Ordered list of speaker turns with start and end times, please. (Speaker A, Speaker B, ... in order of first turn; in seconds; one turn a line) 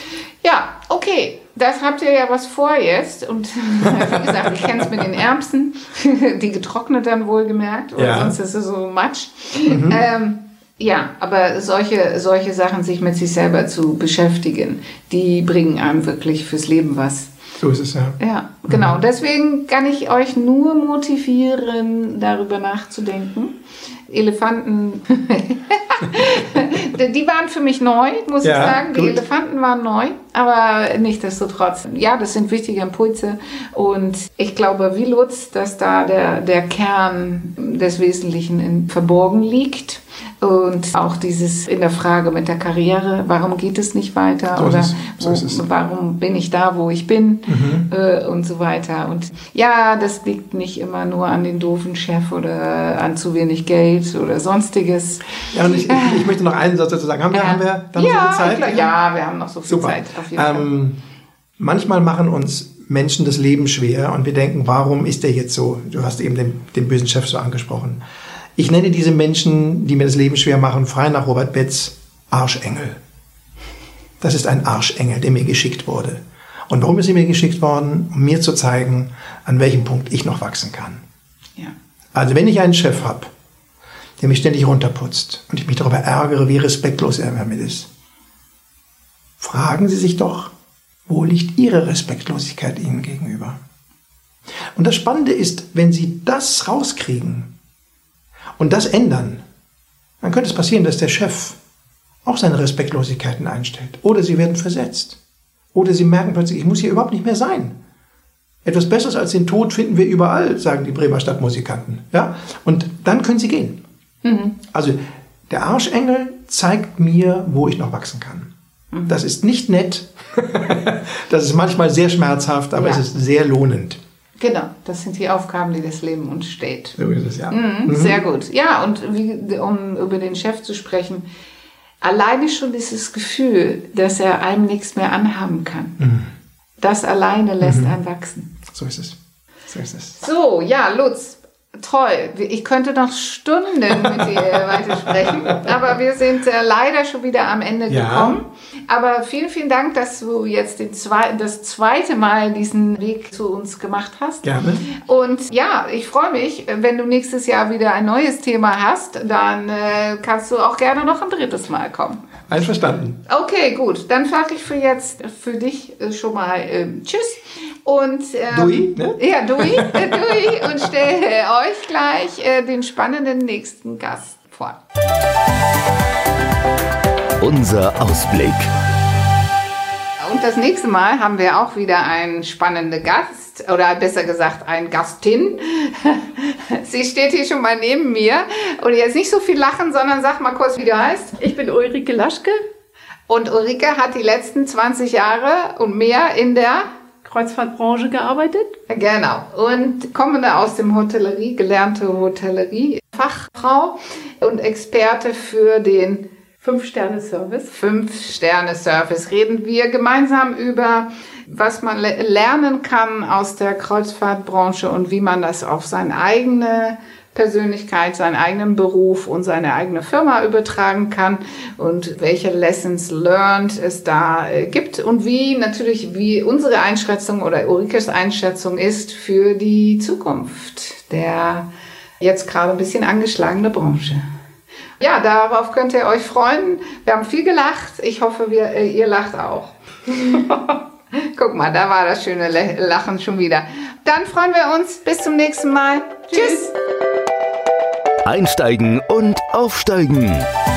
Speaker A: 0.4-17.3
Speaker B: 8.0-8.3
Speaker B: 9.7-10.0
Speaker B: 17.6-19.0
Speaker A: 18.2-23.6
Speaker A: 24.1-56.2
Speaker B: 28.4-29.2
Speaker B: 44.5-45.6
Speaker B: 47.5-47.9
Speaker B: 55.5-58.9
Speaker A: 57.3-60.7
Speaker B: 59.7-61.0
Speaker B: 61.6-68.0
Speaker B: 68.6-73.0
Speaker B: 74.2-81.0
Speaker B: 82.1-83.3
Speaker B: 84.2-87.9
Speaker B: 89.4-90.5
Speaker B: 91.1-93.6
Speaker B: 94.7-97.5
Speaker B: 98.6-99.4
Speaker B: 100.2-101.6
Speaker B: 102.2-105.2
Speaker B: 105.7-107.7
Speaker B: 108.6-113.8
Speaker A: 114.2-114.6
Speaker B: 114.6-118.5
Speaker A: 118.9-119.2
Speaker B: 119.1-124.0
Speaker A: 122.7-123.0
Speaker A: 124.4-127.0
Speaker B: 127.0-128.2
Speaker A: 127.5-131.2
Speaker A: 132.0-135.9
Speaker B: 136.0-136.3
Speaker A: 136.8-138.5
Speaker B: 137.6-137.9
Speaker B: 138.7-139.2
Speaker B: 139.7-140.2
Speaker A: 140.2-162.2
Speaker B: 144.0-144.4
Speaker B: 145.2-145.8
Speaker B: 147.9-148.4
Speaker B: 154.4-154.8
Speaker B: 162.5-163.2
Speaker A: 163.3-174.8
Speaker B: 168.5-170.2
Speaker C: 177.4-178.7
Speaker A: 180.2-191.4
Speaker D: 191.4-192.6
Speaker A: 193.3-196.9
Speaker D: 197.2-198.8
Speaker A: 198.9-206.3
Speaker D: 206.6-207.7
Speaker A: 207.7-231.7
Speaker A: 232.2-234.3
Speaker A: 235.0-246.7
Speaker C: 248.2-250.5